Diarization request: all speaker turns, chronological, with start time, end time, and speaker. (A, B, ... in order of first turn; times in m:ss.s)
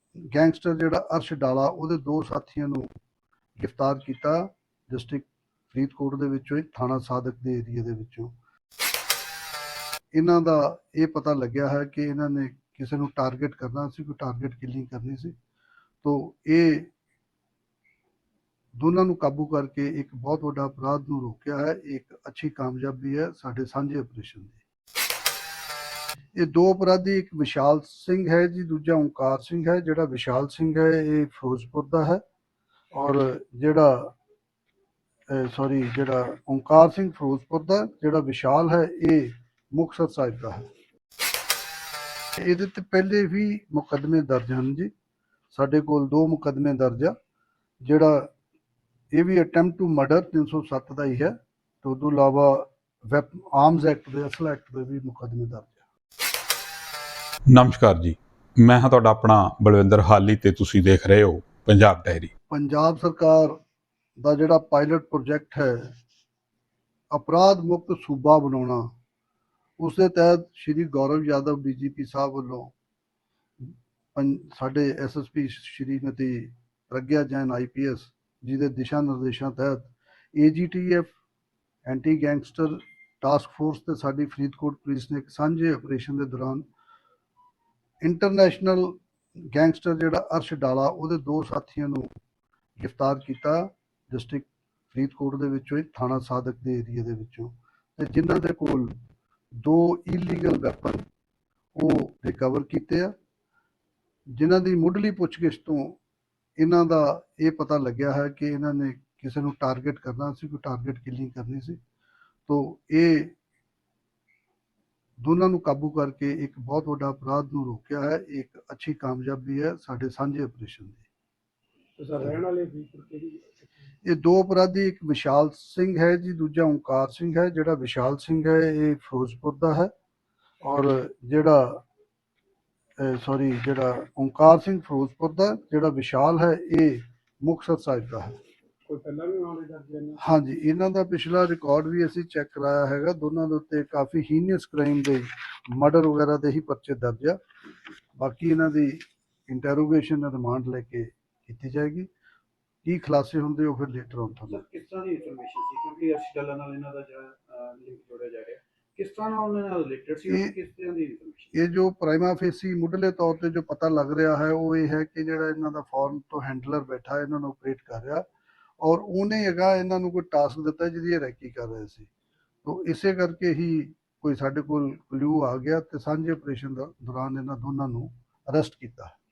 0:00.3-0:02.9 A
0:03.6-0:08.3 A
0:10.1-0:15.3 A
0:16.0-0:16.9 A
0:18.8-0:24.6 A
0:26.4-0:32.2 A
0:32.9-0:34.1 A
0:35.3-0:40.7 A
0:42.4-0:44.9 A
0:45.5-0:47.2 A
0:47.8-0:48.3 A
0:49.1-0:55.8 A
0:57.5-1:02.3 B
1:02.5-1:03.6 A
1:04.2-1:05.9 A
1:07.1-1:08.9 A
1:09.8-1:12.7 A
1:13.6-1:21.1 A
1:21.8-1:26.6 A
1:28.0-1:32.1 A
1:32.8-1:38.9 A
1:39.6-1:41.0 A
1:41.8-1:43.1 A
1:44.4-1:46.0 A
1:46.6-1:51.8 A
1:52.5-1:53.3 A
1:55.2-2:01.0 A
2:02.0-2:03.7 C
2:04.0-2:09.9 A
2:10.6-2:11.8 A
2:13.0-2:18.4 A
2:18.9-2:20.2 C
2:20.2-2:27.4 A
2:28.2-2:32.1 A
2:32.8-2:34.6 A
2:34.5-2:41.5 D
2:41.5-2:48.2 A
2:48.8-2:52.1 A
2:52.6-2:59.2 A